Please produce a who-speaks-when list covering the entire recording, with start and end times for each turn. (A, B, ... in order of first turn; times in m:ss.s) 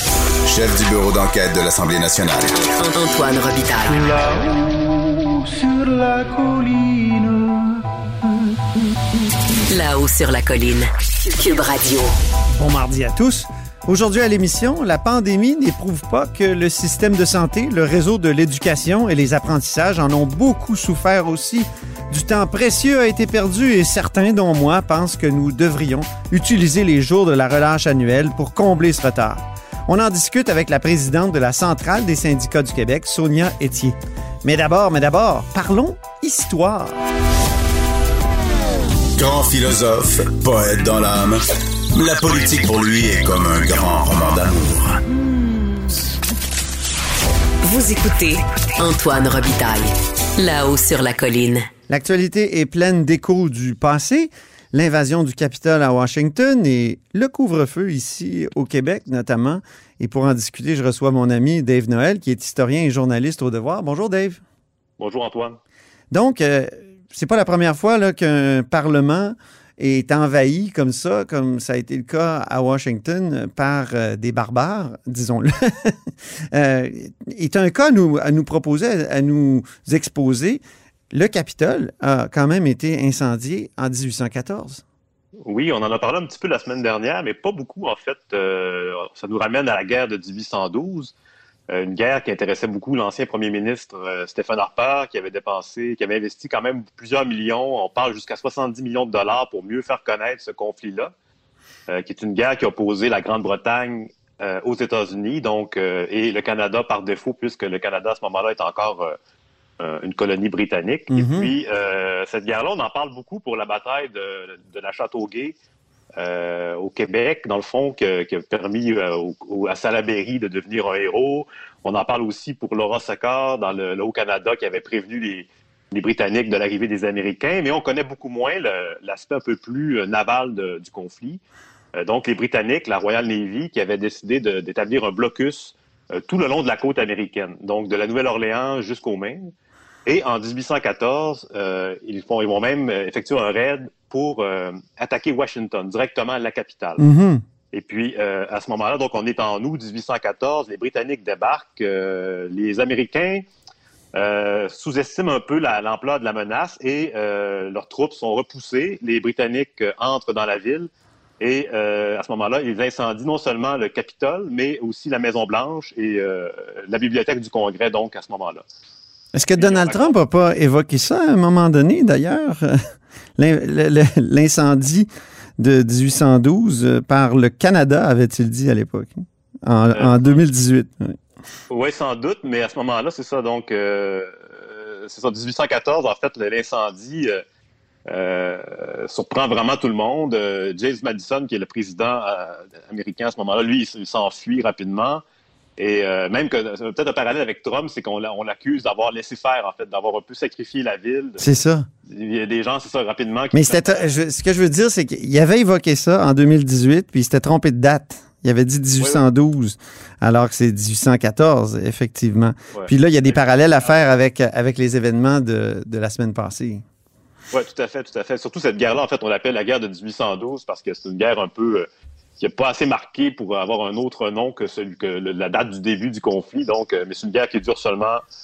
0:00.5-0:02.6 A
0:02.8-0:04.3 B
0:04.4-0:04.9 C
0:05.6-0:07.5 C
0:09.7-0:12.1 B
0:12.6-0:37.0 D
0:39.2-0:45.0 A
0:47.6-0:51.7 B
0:51.9-1:04.4 D
1:05.0-1:05.6 E
1:06.1-1:24.8 D
1:25.4-1:31.1 E
1:31.7-1:41.1 E
1:41.9-1:49.2 E
1:49.8-1:55.6 E
1:51.1-1:51.5 D
1:56.2-2:11.4 E
2:12.0-2:19.5 E
2:20.1-2:27.0 E
2:27.0-2:27.4 D
2:27.7-2:33.4 E
2:34.2-2:40.9 E
2:41.4-2:48.6 E
2:49.3-2:52.8 D
2:49.6-2:50.1 E
2:53.4-2:55.1 D
2:55.6-3:01.2 D
2:59.9-3:00.4 E
3:01.7-3:07.4 E
3:08.1-3:15.2 E
3:15.8-3:21.4 E
3:21.4-3:21.9 D
3:22.1-3:24.1 E
3:23.5-3:36.8 D
3:32.7-3:33.4 E
3:37.5-3:41.9 E
3:42.4-3:48.2 E